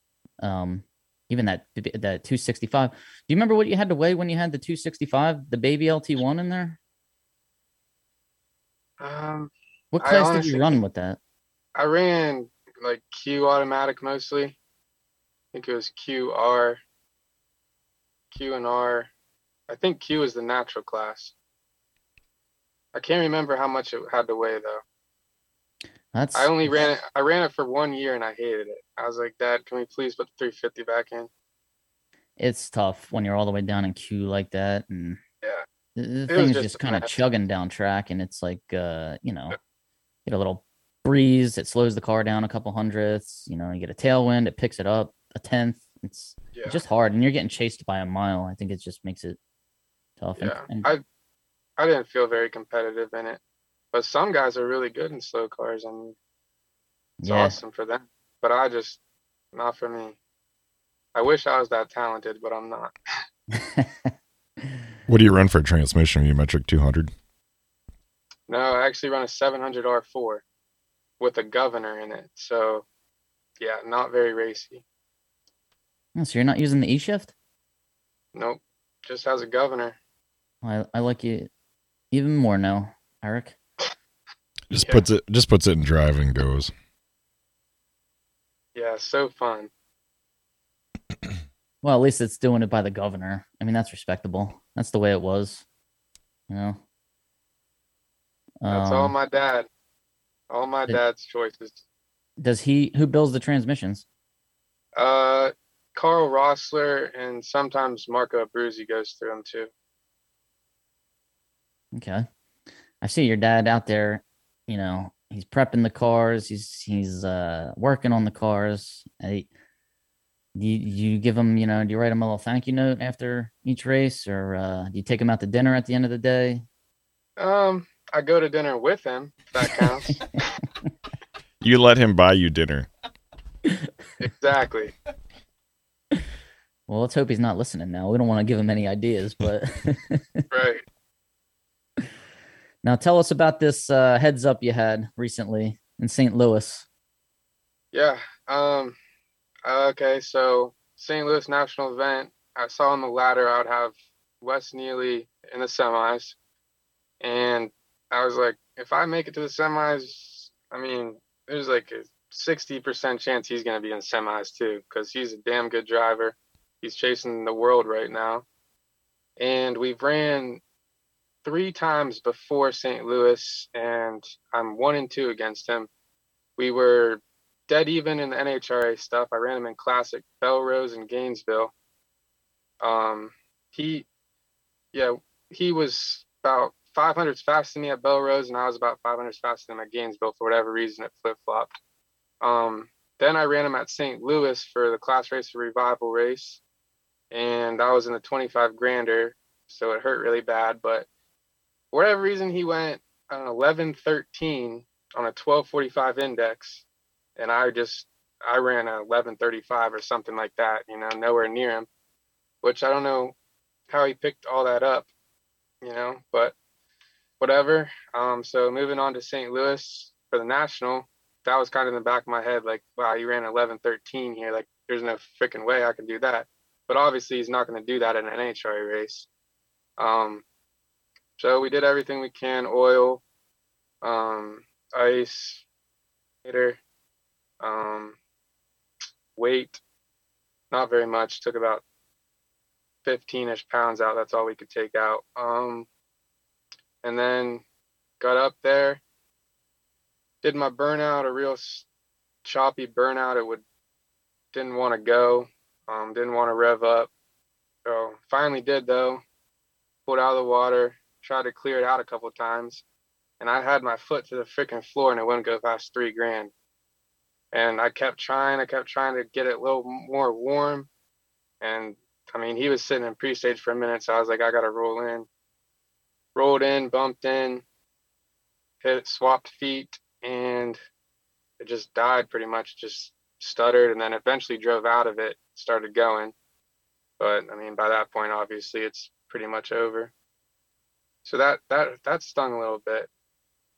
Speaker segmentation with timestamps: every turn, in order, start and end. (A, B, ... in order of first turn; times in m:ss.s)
0:00.4-0:06.8 A
0:09.0-0:10.7 B
0:09.9-0:11.2 A
0:11.7-0:14.6 B
0:15.5-0:16.8 B
0:18.3-0:19.1 B
0:19.7-0:21.3 B
0:22.9-0:24.8 B
0:26.1-0:27.0 A
0:26.3-0:31.3 B
0:32.4-0:35.2 A
0:36.0-0:39.6 A
0:36.3-0:37.1 B
0:40.2-0:49.4 A
0:46.5-0:46.8 B
0:50.2-0:50.8 A
0:50.4-0:51.0 B
0:51.8-0:53.4 B
0:53.9-0:56.2 B
0:57.2-0:57.6 A
0:57.2-0:59.0 B
0:59.5-1:00.2 B
1:01.1-1:02.9 B
1:03.5-1:04.1 A
1:05.1-1:07.1 C
1:08.5-1:10.4 B
1:11.2-1:12.8 B
1:13.6-1:14.8 B
1:16.1-1:17.3 A
1:18.3-1:20.0 B
1:20.6-1:21.5 A
1:22.1-1:23.6 A
1:24.7-1:26.7 C
1:24.8-1:25.0 B
1:28.7-1:29.7 B
1:31.8-1:35.6 A
1:36.5-1:36.8 A
1:38.6-1:39.1 A
1:38.7-1:39.7 B
1:40.5-1:41.8 B
1:42.4-1:44.0 A
1:45.0-1:49.7 B
1:51.9-1:52.2 A
1:53.0-1:59.5 A
2:00.5-2:06.6 A
2:07.4-2:10.5 B
2:11.6-2:12.9 C
2:14.2-2:14.9 B
2:16.9-2:20.4 A
2:20.5-2:20.8 B
2:22.8-2:26.8 A
2:27.9-2:29.0 B
2:29.6-2:36.4 B
2:37.2-2:48.4 B
2:49.4-2:50.6 B
2:51.4-2:55.9 B
2:56.6-3:01.7 B
3:02.8-3:04.0 B
3:04.9-3:11.7 B
3:12.4-3:16.6 B
3:17.3-3:21.1 B
3:21.9-3:26.8 B
3:27.4-3:31.9 B
3:32.6-3:33.3 B
3:33.9-3:35.1 B
3:35.8-3:36.5 B
3:37.4-3:49.3 B
3:50.0-3:50.4 B
3:51.4-3:53.2 B
3:54.0-3:55.6 B
3:56.4-3:56.8 B
3:57.6-3:58.2 B
3:59.4-3:59.8 B
4:00.7-4:01.8 B
4:03.0-4:05.9 B
4:07.0-4:07.6 B
4:08.2-4:09.0 B
4:10.4-4:11.8 B
4:12.4-4:13.6 B
4:14.5-4:17.1 B
4:17.8-4:19.2 B
4:20.0-4:22.8 B
4:23.4-4:26.5 B
4:27.5-4:30.9 B
4:31.6-4:35.3 B
4:36.3-4:37.6 B
4:38.8-4:40.8 B
4:41.6-4:46.3 B
4:47.2-4:50.1 B
4:51.2-4:53.1 B